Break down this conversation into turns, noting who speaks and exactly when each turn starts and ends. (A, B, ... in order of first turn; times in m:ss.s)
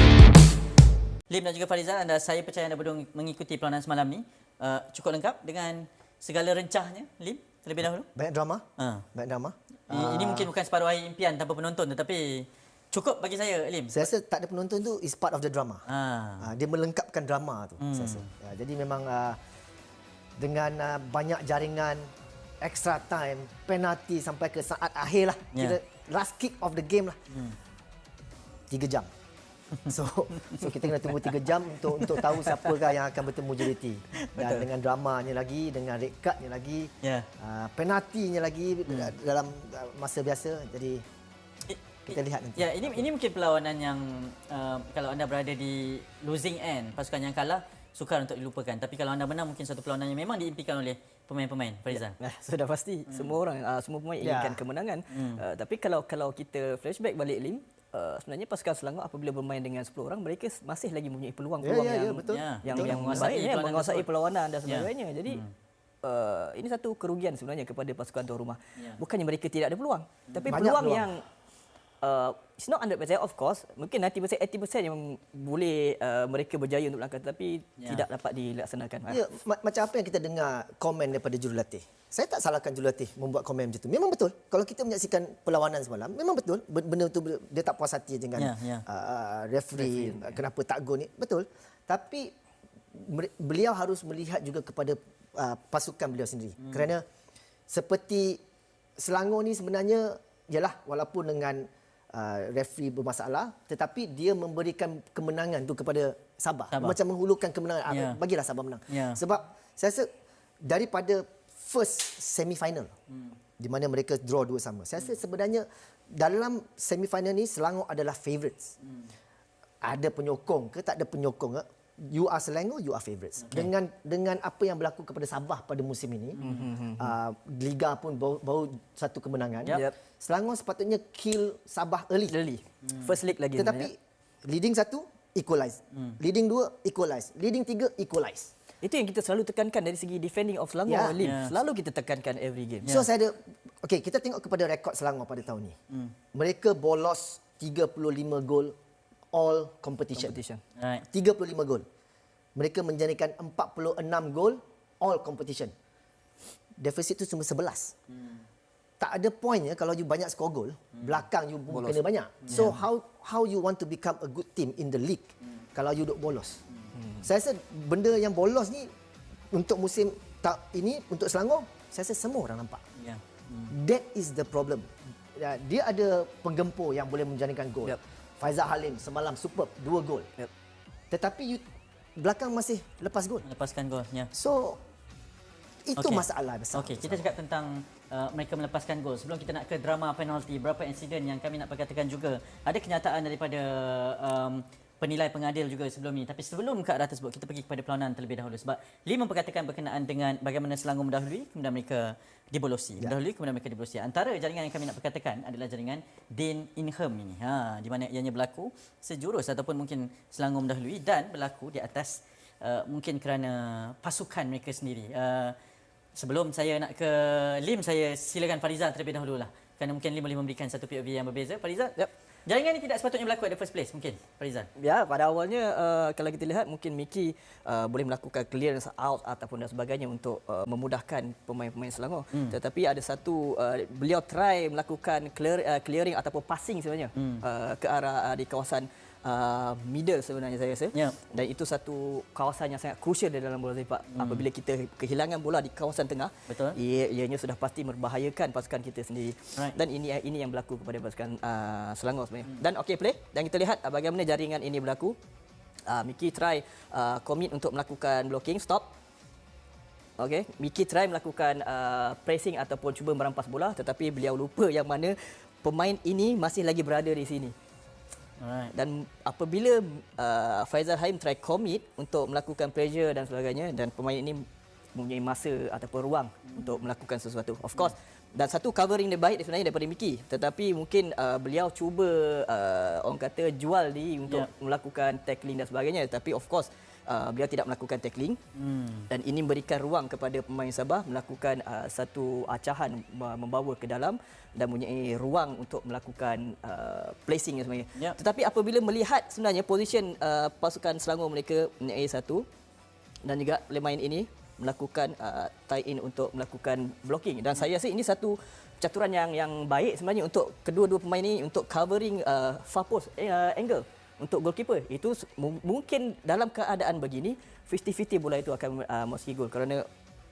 0:01.3-0:08.1 A
0:08.2-0:10.5 B
0:08.8-0:09.1 A
0:09.9-0:14.1 A
0:13.9-0:15.8 B
0:15.9-0:16.5 A
0:16.4-0:19.4 B
0:17.8-0:18.3 A
0:20.4-0:22.1 B
0:22.6-0:27.2 B
0:27.3-0:27.6 A
0:28.7-0:29.1 B
0:29.8-0:41.0 B
0:32.0-0:32.8 C
0:34.4-0:34.7 C
0:37.0-0:37.3 A
0:41.7-0:52.2 A
0:42.1-0:43.1 B
0:51.9-1:05.4 C
0:53.1-0:53.4 A
0:54.2-0:54.6 B
0:55.1-0:55.4 A
1:01.6-1:03.4 B
1:02.3-1:04.1 A
1:04.6-1:05.5 A
1:06.0-1:11.3 C
1:10.3-1:10.6 A
1:10.5-1:11.2 B
1:12.0-1:19.2 C
1:17.8-1:18.0 A
1:19.1-1:32.3 B
1:28.4-1:28.8 A
1:29.7-1:30.4 C
1:33.0-1:37.0 B
1:36.6-1:36.9 A
1:37.7-1:38.4 B
1:39.0-1:50.1 B
1:46.7-1:47.0 A
1:47.9-1:48.2 A
1:48.9-1:49.2 A
1:50.6-1:52.9 B
1:53.1-1:53.4 A
1:53.6-1:58.7 B
1:58.8-1:59.1 A
1:59.8-2:06.4 B
2:03.4-2:03.7 A
2:06.4-2:06.7 A
2:06.4-2:07.2 C
2:07.0-2:12.4 B
2:09.7-2:09.9 C
2:12.3-2:13.9 C
2:12.8-2:13.2 A
2:13.6-2:18.5 B
2:15.9-2:16.2 A
2:18.8-2:22.9 C
2:20.9-2:21.2 B
2:21.2-2:21.5 A
2:22.8-2:23.1 A
2:22.9-2:25.8 B
2:25.9-2:26.2 A
2:26.3-2:28.8 B
2:29.3-2:30.4 B
2:30.2-2:30.6 C
2:30.8-2:31.1 A
2:31.1-2:31.8 B
2:32.6-2:35.7 B
2:36.8-2:37.9 B
2:38.1-2:38.5 A
2:39.0-2:46.6 B
2:41.0-2:41.2 A
2:41.7-2:42.0 C
2:42.4-2:42.8 A
2:47.0-2:47.3 C
2:47.2-2:48.9 B
2:49.5-2:52.8 B
2:53.0-2:53.7 A
2:53.7-3:00.3 B
3:01.1-3:01.6 B
3:02.2-3:03.5 B
3:03.4-3:04.3 A
3:04.3-3:04.8 B
3:05.9-3:07.3 B
3:06.0-3:35.6 A
3:36.2-3:44.7 A
3:44.8-4:15.2 C
3:57.2-3:57.4 A
4:04.1-4:04.5 A
4:06.5-4:06.8 A
4:15.9-4:18.9 C
4:20.2-4:27.5 C
4:28.4-4:28.7 A
4:28.7-4:48.4 C
4:36.4-4:36.9 A
4:48.6-4:49.1 A
4:49.1-5:02.5 C
5:03.2-5:19.9 C